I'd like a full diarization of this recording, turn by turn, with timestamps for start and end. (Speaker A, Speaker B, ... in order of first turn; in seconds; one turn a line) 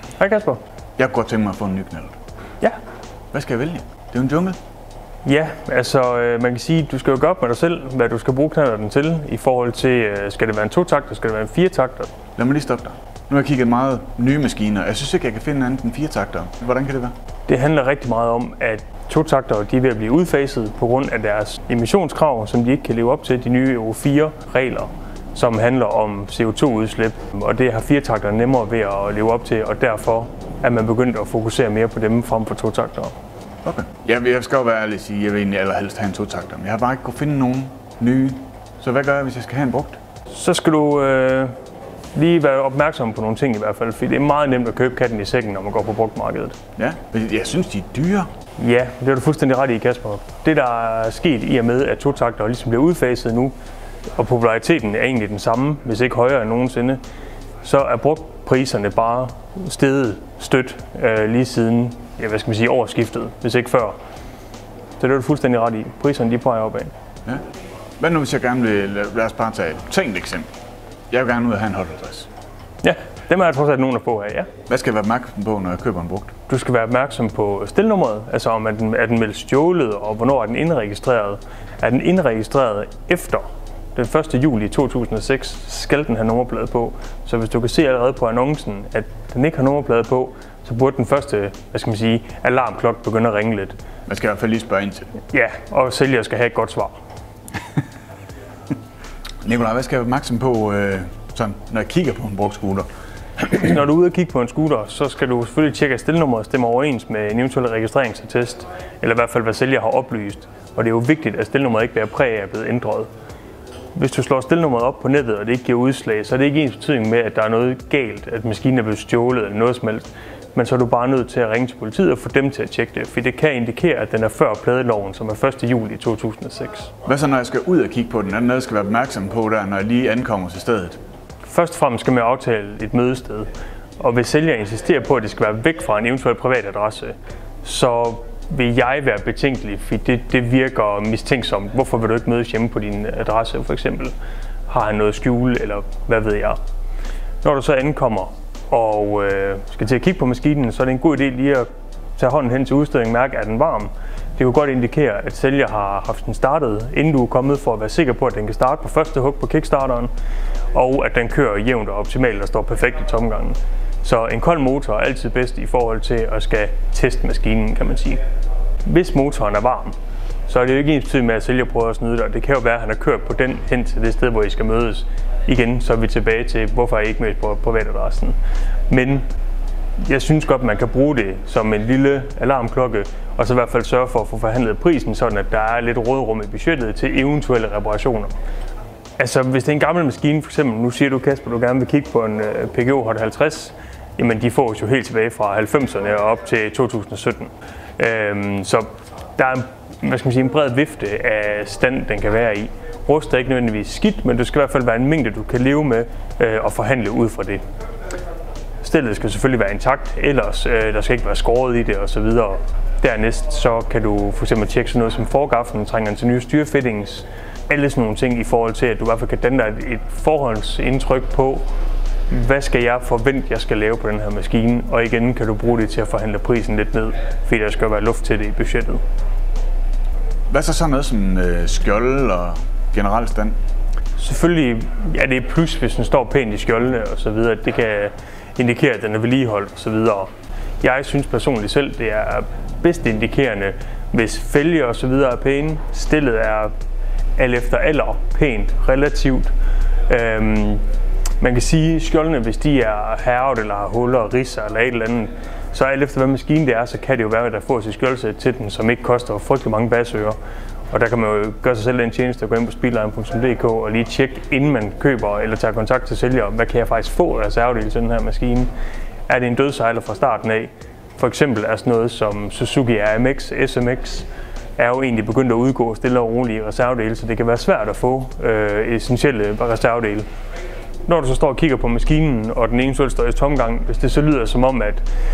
Speaker A: 0.2-0.6
Speaker B: 1.0-2.1
Speaker B: 3.3-4.6
Speaker A: 5.2-12.1
Speaker B: 12.3-17.1
Speaker A: 17.5-33.1
Speaker B: 33.6-40.0
Speaker A: 40.3-41.5
Speaker A: 42.1-46.6
Speaker B: 46.8-48.3
Speaker A: 48.6-53.5
Speaker A: 54.1-57.0
Speaker A: 57.6-64.0
Speaker A: 65.0-66.9
Speaker B: 68.0-70.5
Speaker B: 71.1-72.3
Speaker A: 72.8-74.5
Speaker B: 74.7-76.3
Speaker A: 76.5-93.8
Speaker B: 94.1-95.1
Speaker A: 95.2-96.9
Speaker B: 99.4-102.9
Speaker A: 103.4-113.1
Speaker A: 113.9-126.9
Speaker B: 127.0-131.0
Speaker A: 131.4-144.1
Speaker A: 144.7-146.6
Speaker A: 147.4-160.1
Speaker A: 160.7-168.2
Speaker A: 168.8-169.9
Speaker A: 170.5-178.3
Speaker A: 178.9-179.2
Speaker A: 180.0-188.3
Speaker A: 189.2-207.6
Speaker A: 208.8-221.6
Speaker A: 222.3-229.0
Speaker B: 230.5-233.5
Speaker A: 234.2-240.3
Speaker A: 240.8-246.7
Speaker A: 247.4-249.5
Speaker A: 250.1-250.8
Speaker A: 251.4-260.4
Speaker A: 260.9-268.7
Speaker A: 269.3-280.2
Speaker A: 281.1-285.0